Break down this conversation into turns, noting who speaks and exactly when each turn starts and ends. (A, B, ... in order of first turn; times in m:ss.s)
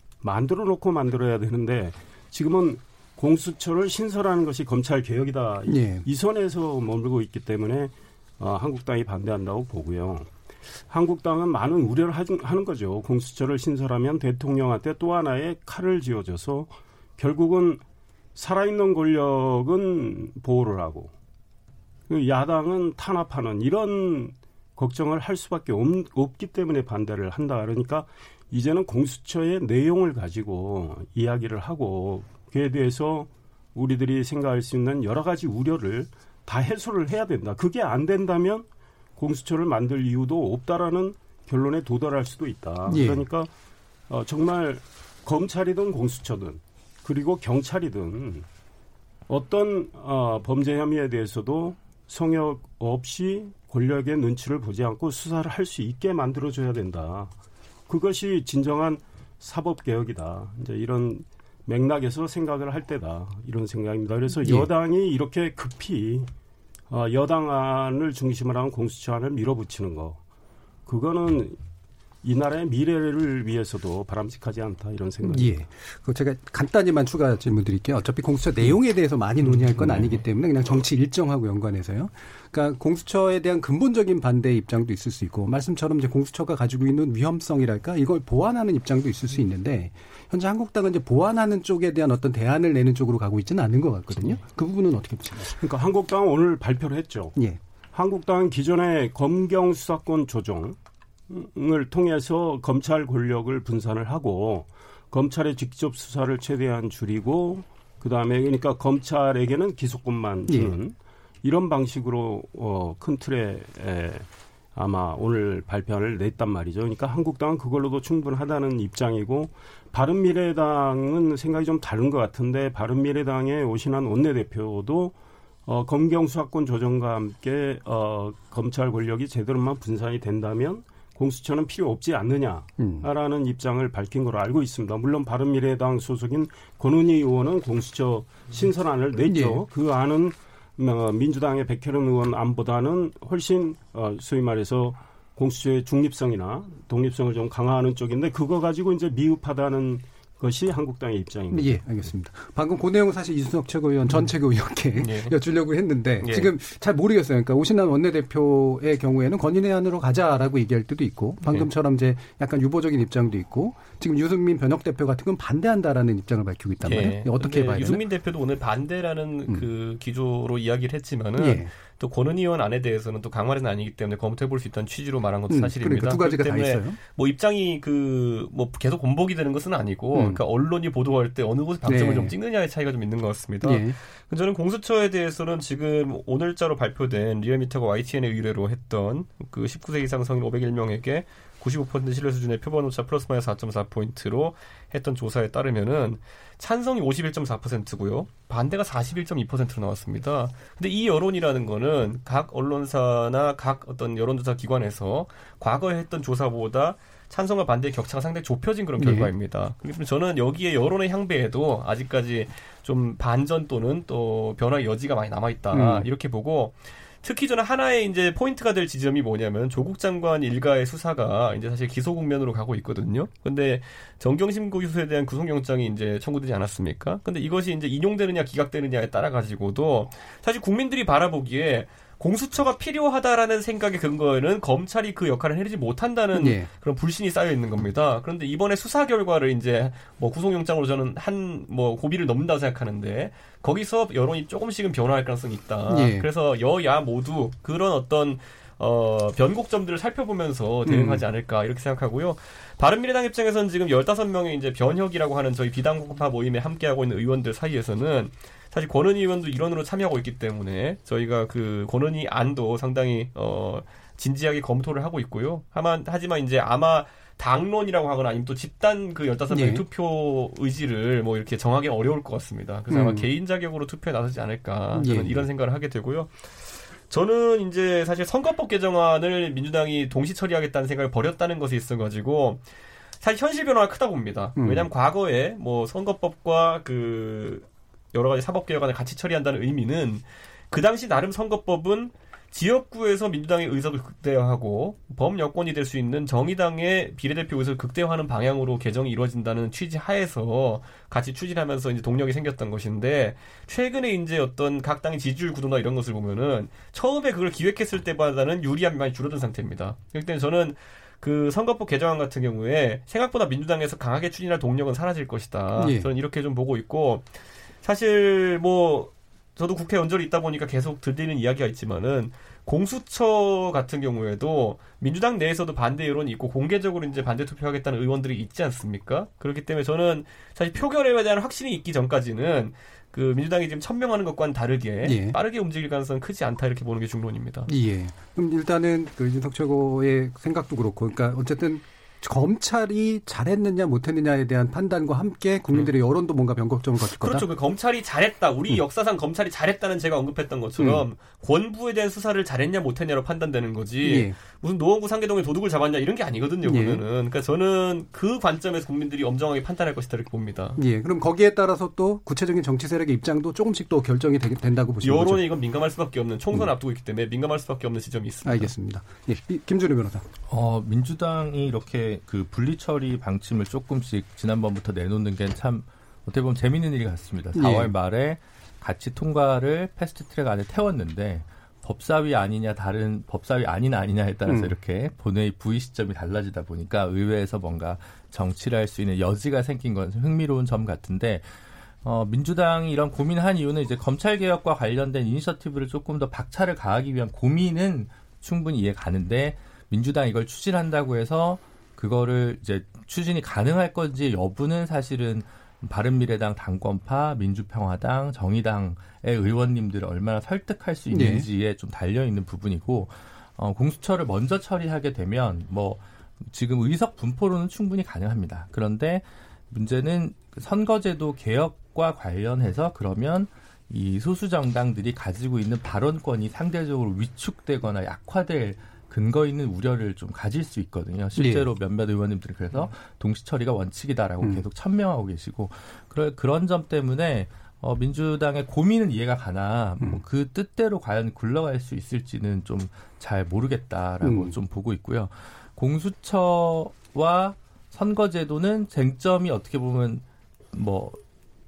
0:00.2-0:10.3 A
0:05.7-0:06.1 B
0:10.9-0:17.8 A
0:18.4-0:21.1 A
0:22.1-0:43.5 A
0:42.9-0:43.3 B
0:44.1-0:48.5 A
0:49.3-0:57.3 A
0:57.9-1:06.3 A
1:04.4-1:04.7 B
1:06.9-1:10.2 A
1:10.9-1:11.6 A
1:12.2-1:15.6 A
1:15.2-1:35.6 B
1:19.4-1:20.2 A
1:35.5-1:37.4 A
1:37.9-1:40.8 A
1:41.3-2:32.1 A
1:50.5-1:50.8 B
2:12.8-2:13.1 B
2:19.3-2:19.6 B
2:31.5-2:48.0 B
2:35.0-2:35.3 C
2:36.2-2:36.5 C
2:46.8-4:36.4 C
2:51.4-2:51.7 B
2:55.5-2:57.0 B
3:00.1-3:00.4 B
3:01.8-3:02.3 B
3:03.6-3:04.0 B
3:29.0-3:29.3 B
3:35.7-3:36.1 B
3:56.3-3:56.7 B
4:05.9-4:06.3 B
4:10.9-4:11.2 B
4:29.5-4:29.8 B
4:32.9-4:33.3 B
4:35.0-4:35.4 B
4:37.0-4:42.6 C
4:43.2-5:17.3 C
4:44.6-4:44.9 B
5:15.8-5:16.1 B
5:17.8-5:37.7 C
5:35.0-5:35.4 B
5:37.7-5:47.5 B
5:47.0-6:00.8 C
5:50.8-5:51.0 B
5:54.0-5:54.4 B
5:56.6-5:57.0 B
6:00.8-6:05.4 B
6:05.0-6:08.7 C
6:08.4-6:10.2 B
6:10.5-6:31.5 D
6:17.6-6:17.9 B
6:32.0-7:31.2 D
6:51.1-6:51.5 B
7:11.4-7:11.7 B
7:24.2-7:24.6 B